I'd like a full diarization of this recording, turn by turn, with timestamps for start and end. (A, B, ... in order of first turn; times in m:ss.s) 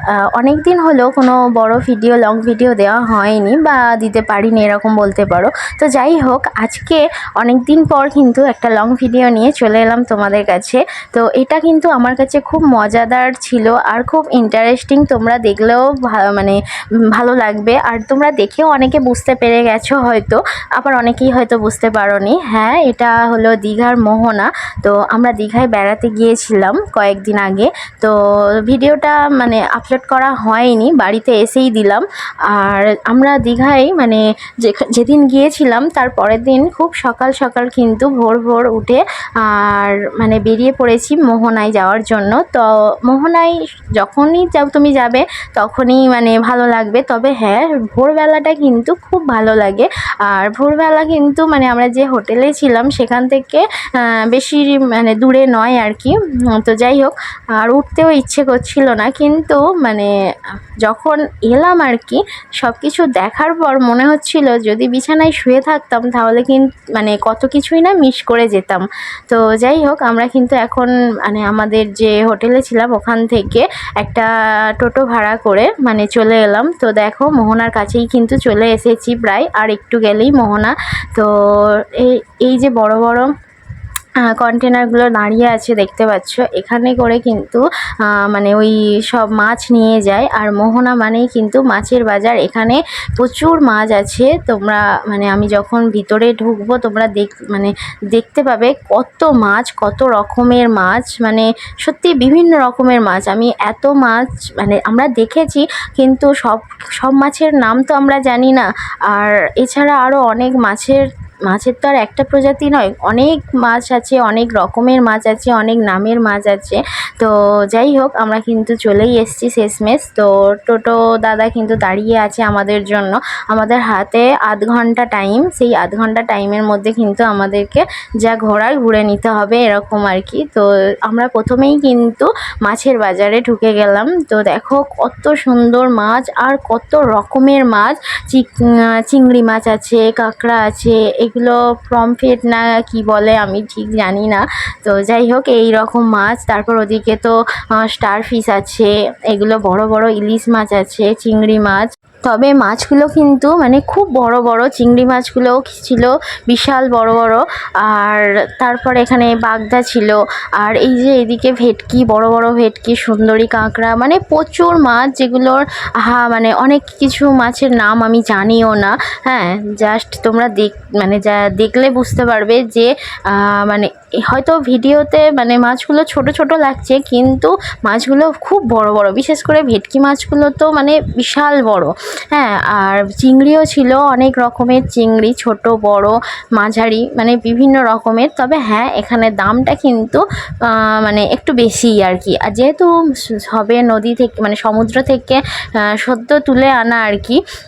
0:00.4-0:16.6 A
0:17.1-0:28.1 A
0:28.6-1:00.1 A
1:00.8-1:23.3 A
1:24.2-3:17.4 A